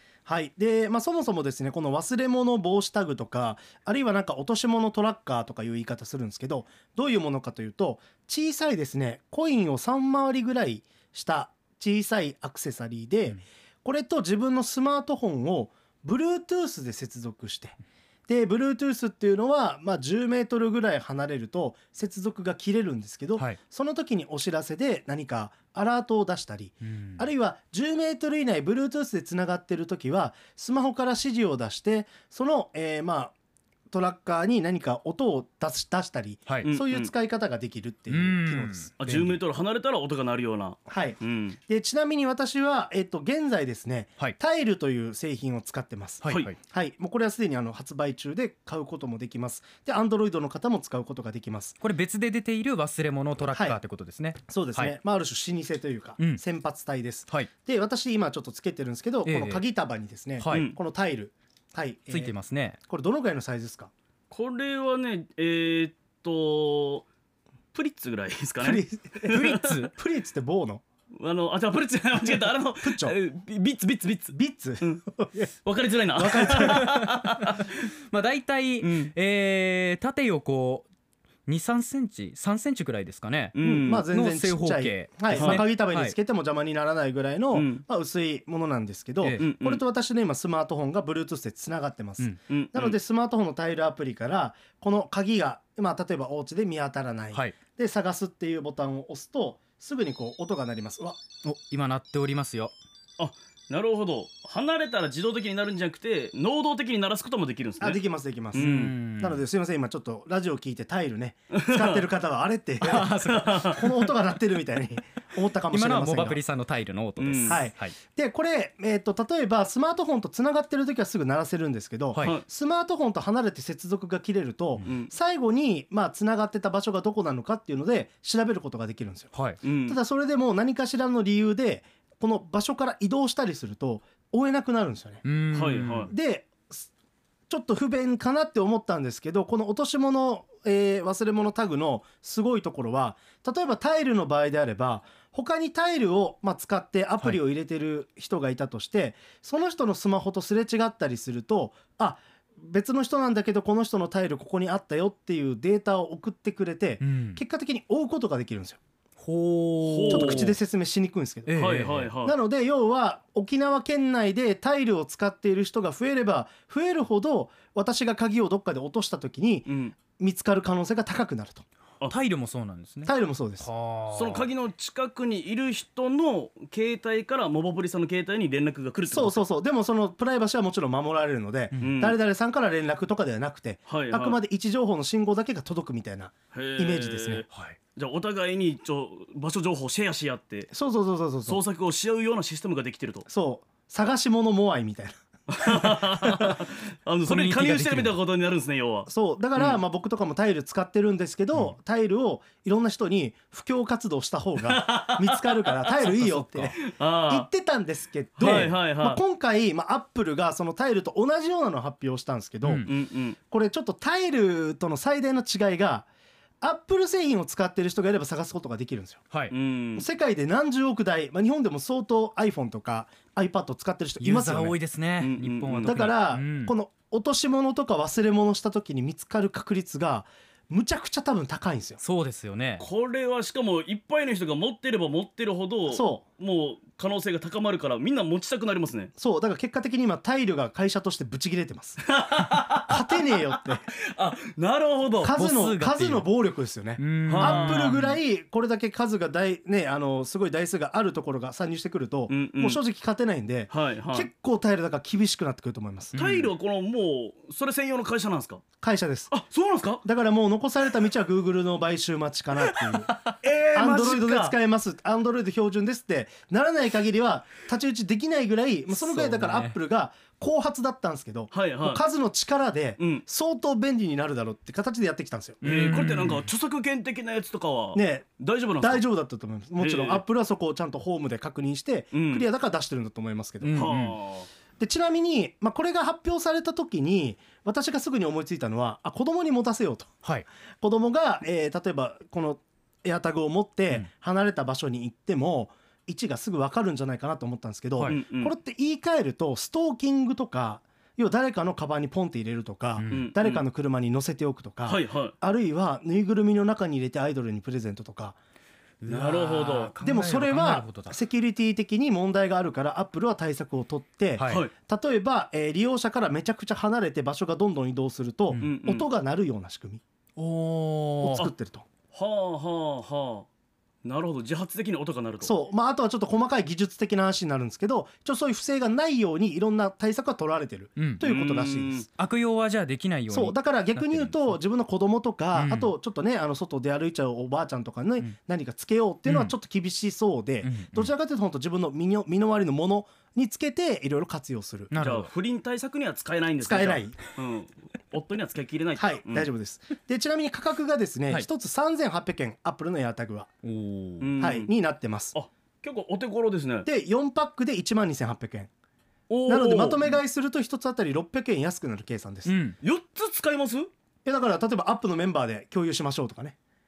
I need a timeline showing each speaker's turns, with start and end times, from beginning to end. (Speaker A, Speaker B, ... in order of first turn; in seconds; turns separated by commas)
Speaker A: 0.3-17.8, Speaker A: 18.3-33.3, Speaker B: 26.8-27.3, Speaker A: 33.9-38.9, Speaker B: 36.5-36.7, Speaker C: 36.6-37.1, Speaker B: 38.1-39.4, Speaker C: 39.0-41.6, Speaker A: 40.9-51.8, Speaker B: 46.2-46.5, Speaker C: 46.2-46.5, Speaker B: 51.8-55.0, Speaker A: 53.5-53.8, Speaker A: 54.5-62.3, Speaker B: 59.2-59.7, Speaker B: 60.4-60.7, Speaker B: 62.1-62.8, Speaker A: 62.9-63.9, Speaker C: 64.3-67.1, Speaker C: 67.7-69.7, Speaker A: 68.6-70.8, Speaker B: 69.3-69.9, Speaker C: 71.2-75.0, Speaker A: 72.8-73.2, Speaker A: 74.3-75.5, Speaker C: 75.7-77.7, Speaker A: 76.2-76.9, Speaker B: 76.6-77.2, Speaker B: 78.1-80.9, Speaker C: 78.8-79.1, Speaker B: 81.5-86.2, Speaker C: 83.5-84.0, Speaker A: 83.6-101.2, Speaker C: 85.3-85.6, Speaker C: 87.5-87.8, Speaker C: 89.4-89.8, Speaker C: 92.5-93.0, Speaker B: 101.4-102.8, Speaker C: 103.2-108.0, Speaker A: 107.8-113.1, Speaker C: 108.5-108.9, Speaker B: 108.6-109.4, Speaker C: 111.5-112.1, Speaker B: 112.8-113.7, Speaker C: 113.1-113.9, Speaker A: 113.6-116.4, Speaker B: 115.7-118.0, Speaker C: 117.2-117.6, Speaker A: 117.5-135.3, Speaker C: 124.8-125.1, Speaker B: 129.3-129.6, Speaker C: 129.6-130.0, Speaker B: 135.2-136.1, Speaker C: 135.5-136.1, Speaker A: 136.1-136.9, Speaker A: 137.5-158.8, Speaker B: 157.0-157.4, Speaker B: 159.2-160.6, Speaker C: 159.9-160.5, Speaker A: 160.1-161.5, Speaker B: 161.5-162.1, Speaker C: 161.5-162.3, Speaker A: 162.2-171.7, Speaker C: 169.7-170.0, Speaker B: 172.1-174.5, Speaker A: 173.1-173.7, Speaker C: 174.1-179.4, Speaker A: 179.1-187.5, Speaker B: 181.7-182.0, Speaker C: 181.8-182.2, Speaker C: 183.9-184.4, Speaker C: 186.5-190.7, Speaker B: 187.5-187.8, Speaker A: 190.7-191.6, Speaker C: 191.4-193.3, Speaker A: 193.3-195.9, Speaker C: 195.5-199.8, Speaker B: 197.3-198.2, Speaker A: 199.1-212.9, Speaker C: 204.7-207.5, Speaker C: 208.4-209.2, Speaker B: 208.4-208.7, Speaker B: 212.6-212.9, Speaker C: 212.9-213.4, Speaker A: 213.5-216.1, Speaker A: 216.6-219.2, Speaker C: 219.5-220.1, Speaker A: 220.0-224.8, Speaker B: 224.2-226.7, Speaker C: 225.2-226.1, Speaker A: 225.8-232.0, Speaker B: 232.0-232.8, Speaker C: 232.8-239.1, Speaker A: 235.9-236.3, Speaker A: 239.2-242.1, Speaker C: 242.1-243.2, Speaker A: 242.9-243.9, Speaker C: 244.1-245.4, Speaker A: 245.2-256.2, Speaker B: 245.3-246.3, Speaker B: 247.0-248.2, Speaker C: 247.3-248.0, Speaker C: 252.3-252.8, Speaker C: 253.7-254.3, Speaker B: 256.1-256.5, Speaker C: 256.1-258.6, Speaker A: 258.8-259.3, Speaker C: 259.3-260.0, Speaker A: 260.0-263.1, Speaker C: 262.8-264.6, Speaker A: 263.7-275.6, Speaker B: 268.9-269.8, Speaker C: 271.5-272.0, Speaker C: 273.0-273.2, Speaker B: 275.6-276.5, Speaker C: 275.6-279.1, Speaker A: 277.9-278.3, Speaker A: 278.8-283.9, Speaker C: 279.8-280.2, Speaker C: 282.1-282.5, Speaker B: 283.6-284.1, Speaker C: 283.8-284.5, Speaker A: 284.8-290.2, Speaker A: 290.8-308.4, Speaker C: 298.0-298.5, Speaker B: 303.0-303.3, Speaker C: 303.1-303.6, Speaker C: 304.9-305.3, Speaker B: 309.0-311.2, Speaker C: 309.1-309.9, Speaker A: 310.0-320.0, Speaker B: 314.4-314.6, Speaker C: 314.5-314.7, Speaker C: 318.6-319.1, Speaker B: 320.4-321.5, Speaker A: 321.2-321.9, Speaker C: 322.1-323.5, Speaker C: 324.0-325.5, Speaker A: 325.4-332.1, Speaker B: 331.0-331.2, Speaker C: 331.2-332.1, Speaker B: 332.2-334.6, Speaker A: 333.3-344.9, Speaker B: 335.6-335.9, Speaker B: 339.2-339.6, Speaker B: 340.6-341.1, Speaker B: 344.9-345.3, Speaker C: 345.0-349.5, Speaker A: 346.6-347.2, Speaker A: 349.0-353.5, Speaker B: 353.6-354.3, Speaker C: 354.2-354.7, Speaker A: 354.4-355.4, Speaker C: 355.3-356.9, Speaker A: 356.9-358.7, Speaker C: 359.3-360.2, Speaker A: 359.5-362.6, Speaker B: 362.4-362.8, Speaker C: 362.8-363.9, Speaker A: 364.2-366.6